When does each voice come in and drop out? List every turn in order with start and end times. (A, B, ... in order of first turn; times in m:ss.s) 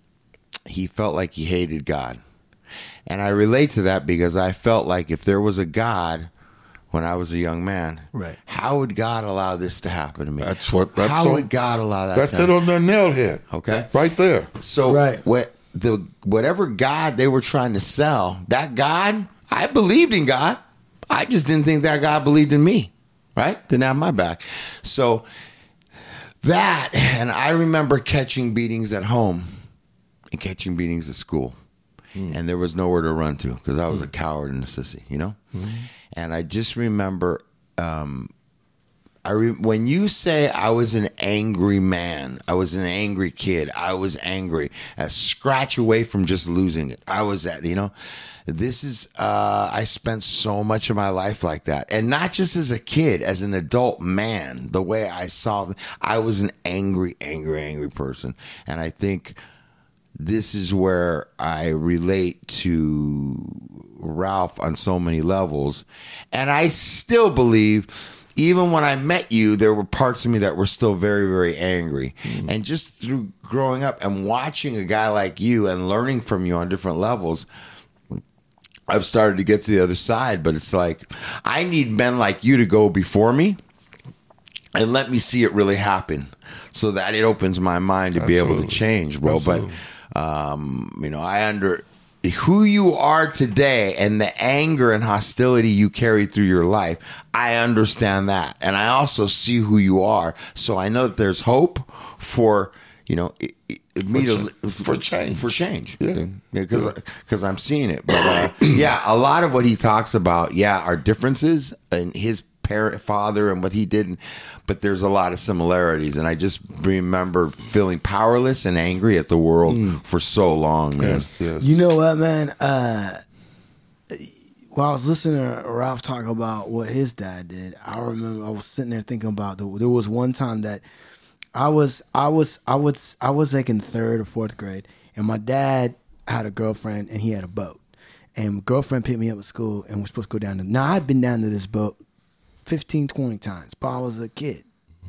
0:00.6-0:02.2 A
0:03.1-0:06.3 A
0:06.9-0:12.5 A
0:10.4-0:11.5 B
0:12.1-0:14.5 B
0:13.5-0:13.9 A
0:14.6-0:25.2 A
0:14.8-0:15.2 C
0:26.4-0:29.6 A
0:30.3-0:31.5 A
0:32.3-0:35.4 A
0:35.5-0:35.9 B
0:36.1-0:38.3 A
0:39.2-0:47.9 A
0:48.4-0:59.4 A
1:00.2-1:17.5 A
1:12.2-1:12.5 B
1:18.9-1:23.6 A
1:24.7-2:01.3 A
1:28.1-1:29.8 B
1:44.1-1:46.9 B
1:48.2-1:48.5 B
1:59.7-2:00.0 B
2:01.0-2:01.8 B
2:01.6-2:03.2 C
2:04.1-2:10.8 C
2:11.5-2:17.8 C
2:18.4-2:22.0 C
2:22.6-2:24.6 C